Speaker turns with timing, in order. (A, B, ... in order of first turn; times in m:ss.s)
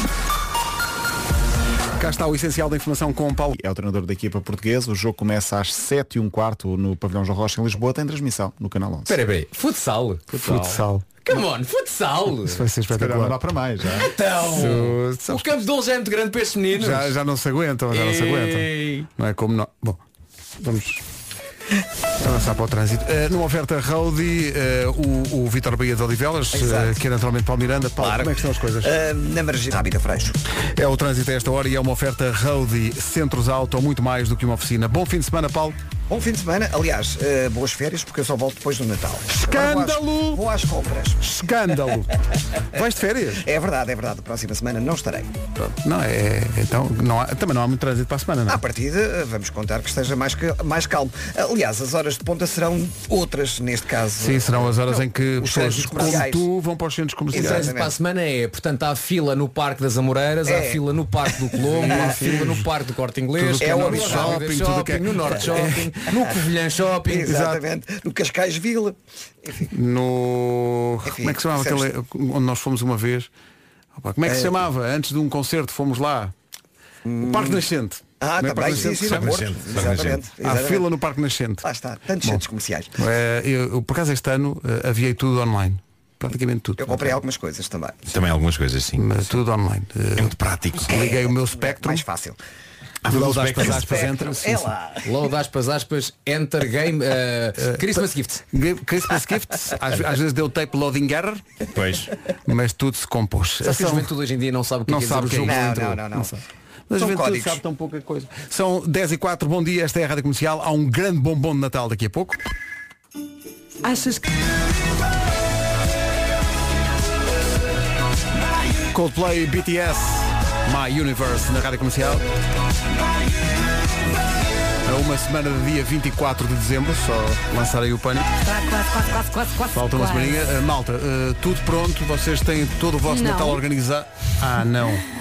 0:02.0-0:03.6 A
0:03.5-0:09.2 B
0:09.1-0:12.6 C
0:10.3-0:11.1 A
0:12.4-0:13.4 A
0:12.9-0:14.1 B
0:14.0-0:17.1 C
0:14.4-0:15.5 A
0:16.7-0:20.0 A
0:17.9-0:19.1 C
0:20.6-0:21.0 A
0:22.2-0:28.9 A
0:26.5-0:27.0 D
0:28.0-0:30.4 D
0:30.7-0:35.8 A
0:36.1-0:41.4 D
0:39.4-0:40.4 A
0:41.2-0:42.1 A
0:42.7-0:43.4 A
0:43.4-0:45.3 D
0:45.6-0:48.6 A
0:48.5-0:56.4 D
0:54.2-0:57.7 A
0:57.3-0:57.9 D
0:57.3-1:07.3 C
1:00.4-1:02.5 D
1:01.7-1:02.7 A
1:03.4-1:06.0 A
1:03.6-1:04.4 D
1:05.2-1:06.4 D
1:07.0-1:09.7 D
1:07.2-1:07.6 A
1:09.7-1:13.3 A
1:11.0-1:11.9 D
1:14.0-1:16.3 A
1:14.2-1:14.6 D
1:17.0-1:17.6 D
1:17.2-1:19.4 A
1:18.2-1:20.9 D
1:18.7-1:20.3 E
1:20.4-1:21.6 A
1:21.6-1:22.9 D
1:23.0-1:27.2 A
1:26.8-1:28.1 D
1:28.1-1:29.2 E
1:29.0-1:32.0 A
1:30.2-1:30.9 E
1:30.9-1:32.4 D
1:33.0-1:34.0 E
1:33.0-1:34.7 A
1:33.6-1:35.1 D
1:35.0-1:38.4 C
1:37.6-1:41.4 A
1:41.7-1:42.1 E
1:42.4-1:44.1 A
1:43.6-1:45.6 C
1:44.9-1:52.4 A
1:45.4-1:46.4 D
1:47.0-1:47.6 D
1:53.8-1:54.2 F
1:58.9-2:02.2 A
2:04.8-2:08.3 A
2:08.4-2:10.4 F
2:09.7-2:15.0 A
2:13.1-2:13.6 F